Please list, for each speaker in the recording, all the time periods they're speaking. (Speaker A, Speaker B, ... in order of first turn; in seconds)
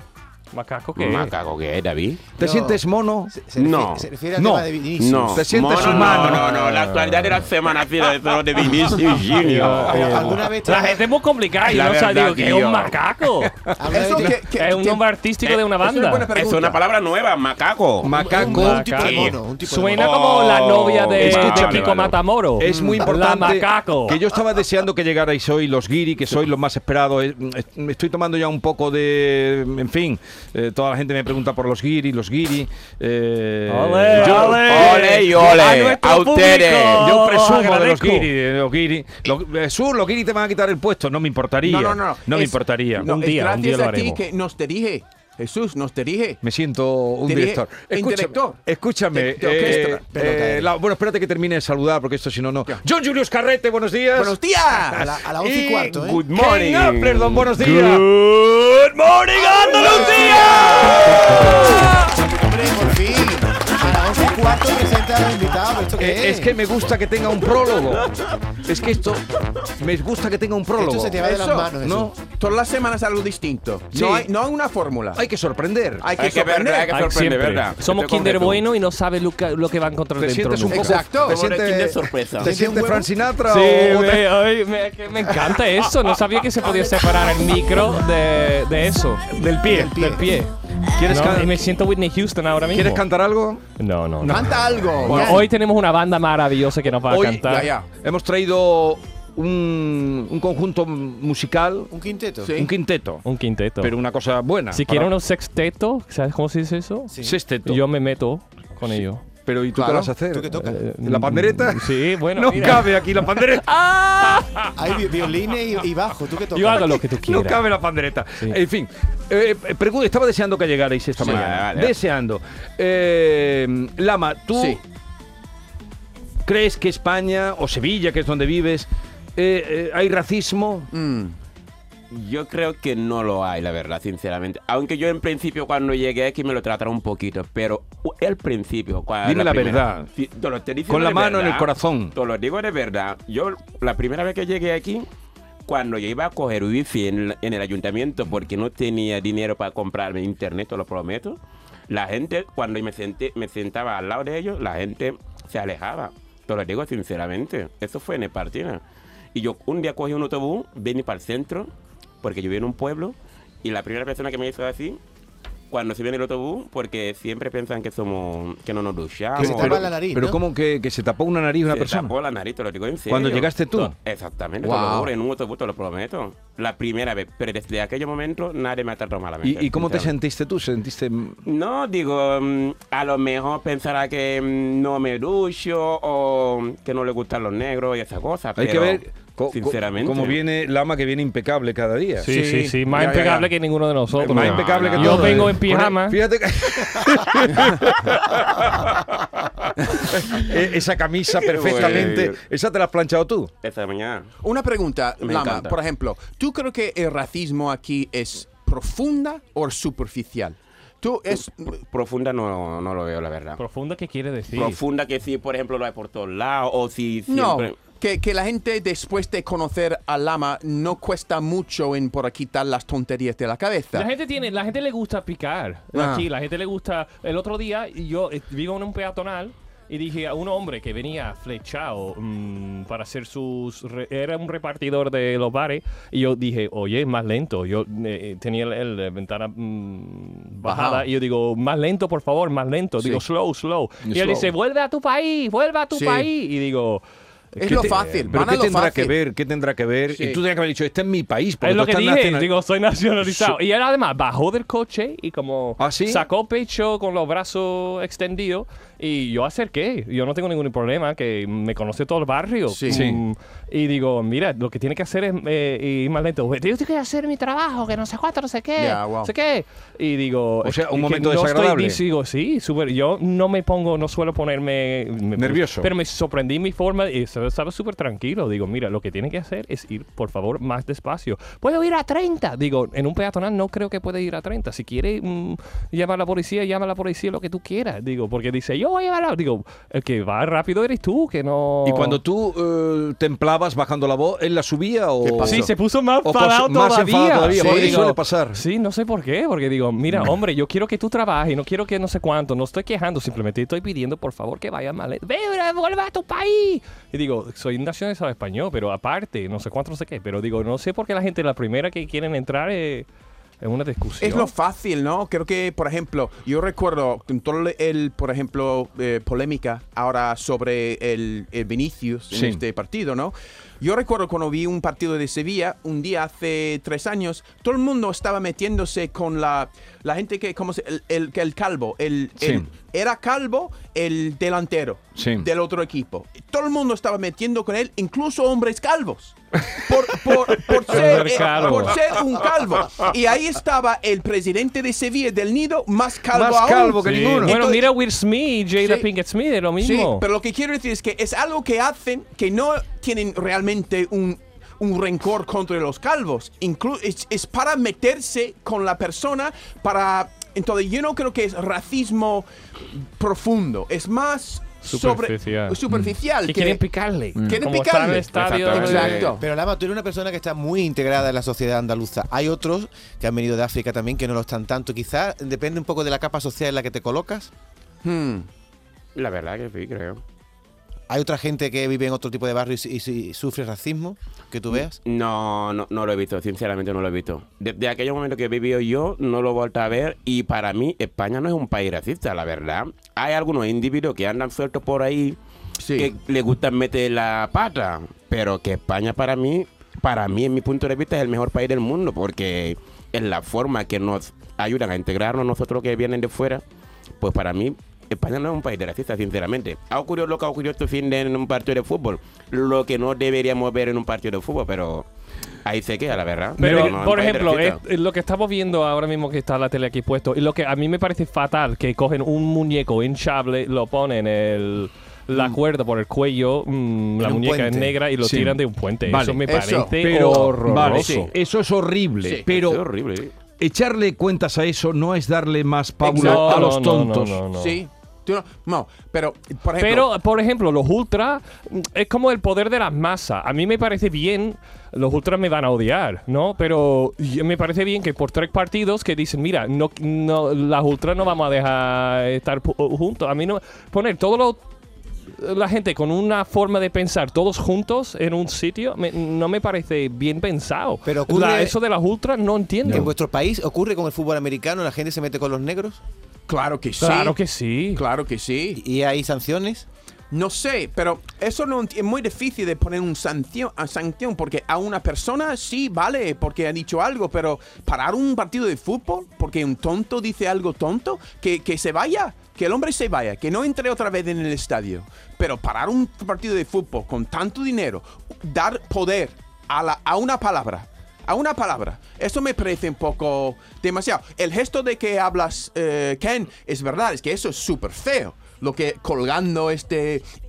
Speaker A: 0.5-1.3, 5.8-7.3, 9.3-13.6, 14.5-16.3, 18.3-24.2, 33.7-38.3, 43.0-44.2, 76.9-81.0, 83.5-93.0, 93.8-97.7, 103.2-103.9, 104.7-107.1, 107.6-109.2, 110.5-114.7, 116.5-117.7, 192.2-196.2, 213.6-214.8, 223.9-247.0, 247.6-248.2, 251.6-292.2, 295.4-313.1, 313.6-314.5, 340.9-342.0, 347.0-350.3, 364.8-365.8, 366.4-369.3, 416.6-431.3, 436.1-437.8, 439.8-454.6, 455.4-463.1, 467.0-468.0
Speaker B: 1.0-2.3, 3.6-4.1, 5.0-10.3, 11.6-13.0, 16.3-19.4, 20.0-22.2, 34.2-37.0, 56.4-58.0, 76.2-78.6, 81.2-82.6, 121.2-122.0, 132.1-145.1, 145.7-158.8, 159.3-165.0, 165.7-169.9, 171.7-180.1, 181.4-190.4, 194.3-195.5, 201.3-202.4, 203.6-204.3, 205.2-205.8, 211.4-213.6, 214.6-217.8, 368.4-369.4, 379.1-380.2, 385.0-395.4, 396.0-406.6, 407.2-415.1, 415.6-417.8, 432.5-433.3
Speaker C: 2.4-3.3, 4.4-4.7, 5.3-6.5, 9.9-10.2, 13.4-14.2, 18.0-19.3, 21.2-21.9, 22.6-34.9, 36.9-43.1, 46.4-62.2, 66.0-71.2, 71.8-72.2, 73.9-74.3, 75.2-76.1, 80.2-84.4, 89.6-89.8, 90.9-91.8, 92.7-93.6, 95.0-95.3, 97.0-101.9, 102.5-103.2, 103.8-105.1, 107.2-107.8, 108.8-114.5, 117.2-124.8, 126.5-130.9, 139.2-140.1, 140.9-142.2, 169.4-172.1, 173.1-173.9, 179.4-181.4, 188.6-192.3, 194.1-203.5, 244.1-244.5, 247.6-252.5, 253.2-253.6, 255.8-256.3, 262.9-263.2, 270.6-272.0, 275.4-275.9, 291.9-295.7, 296.2-298.6, 322.3-322.6, 332.4-332.7, 335.2-335.5, 346.3-347.9, 416.6-416.9, 428.2-432.8, 433.6-437.4, 462.9-463.1
Speaker D: 2.4-5.5, 9.9-11.1, 13.8-14.3, 18.5-20.1, 49.9-50.7, 54.8-56.2, 62.5-66.5, 70.8-72.1, 82.4-83.0, 89.6-90.2, 95.0-95.4, 101.9-102.5, 107.1-107.4, 109.8-110.8, 114.8-117.0, 169.4-170.4, 369.4-377.5, 381.1-385.0, 427.2-428.0, 461.1-461.8, 462.9-466.0, 468.8-469.9
Speaker E: 13.9-15.1, 15.8-16.8, 41.6-46.4, 47.3-48.6, 49.1-50.2, 54.2-55.1, 59.8-60.7, 62.5-62.9, 71.2-75.2, 76.0-77.0, 80.7-81.4, 82.5-83.1, 94.2-95.5, 97.5-97.9, 102.4-102.7, 130.9-131.4, 174.6-175.1, 192.3-193.5, 201.7-202.2, 204.4-211.8, 217.3-224.1, 225.9-226.3, 240.6-241.1, 245.9-246.3, 247.6-249.1, 250.1-250.4, 262.7-263.1, 268.8-269.3, 295.2-295.7, 297.5-298.0, 314.2-347.5, 348.8-349.1, 349.8-366.8, 367.4-369.4, 378.0-378.5, 395.8-396.1, 429.5-429.9, 430.9-431.3, 436.0-436.7, 437.5-440.1, 466.5-467.4, 467.9-468.8, 470.3-500.3